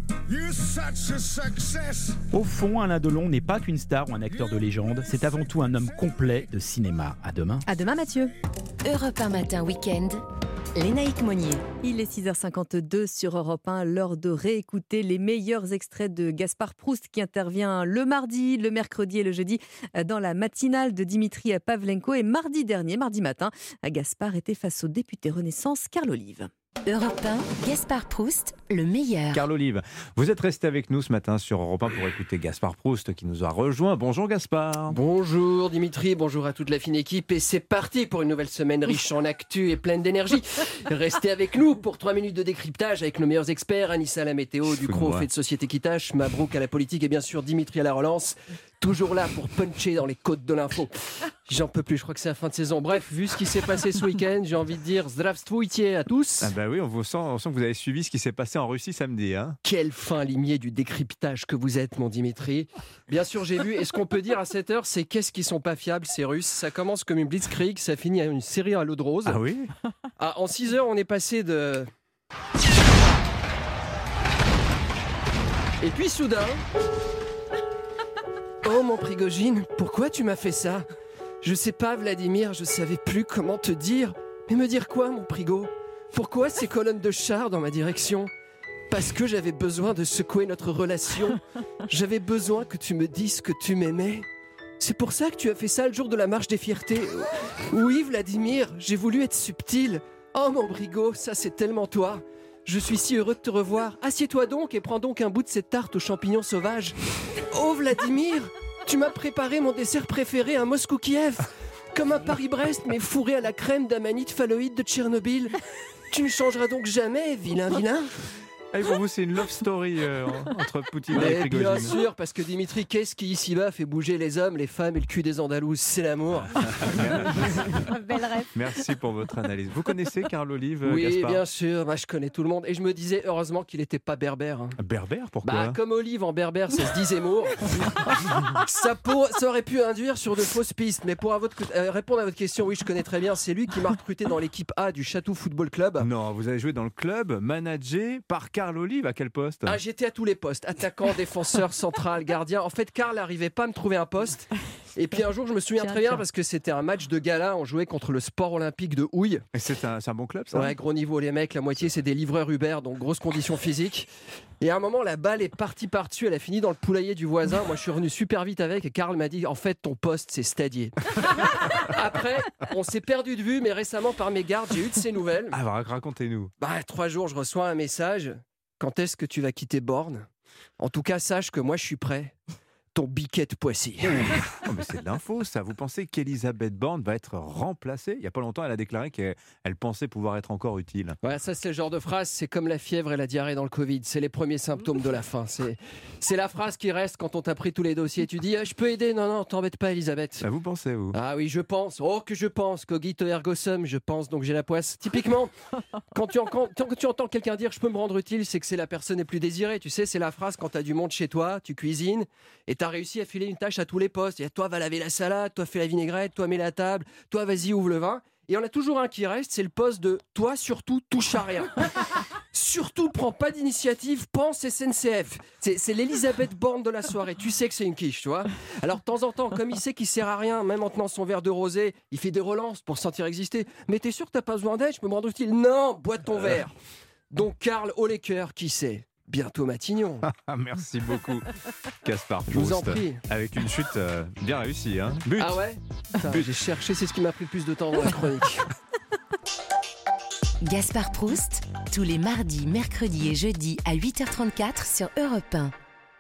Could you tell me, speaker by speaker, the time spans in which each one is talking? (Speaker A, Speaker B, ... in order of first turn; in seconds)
Speaker A: 2.3-7.7
Speaker B: 7.7-8.3, 11.8-26.5, 155.8-156.2
Speaker C: 8.8-10.2, 10.8-11.6, 26.9-29.4, 250.6-255.7
Speaker D: 29.4-34.9, 56.4-59.5, 118.7-121.9, 128.6-131.4, 134.8-135.7, 146.1-149.7, 159.6-160.5, 175.6-176.5, 184.8-191.1, 200.4-201.1, 240.5-241.4, 242.2-245.5
Speaker E: 34.9-56.5, 59.6-69.4, 70.2-71.9, 75.8-76.6, 78.6-80.9, 81.4-88.3, 88.9-94.3, 94.8-107.0, 107.5-115.6, 116.1-118.1, 121.1-127.6, 130.8-134.8, 135.4-146.1, 149.7-159.5, 160.5-164.1, 164.6-175.6, 176.6-180.3, 180.8-182.4, 182.9-184.6, 191.2-200.5, 201.1-205.5, 206.1-221.9, 222.5-236.7, 237.3-240.2, 242.5-243.2, 245.4-248.7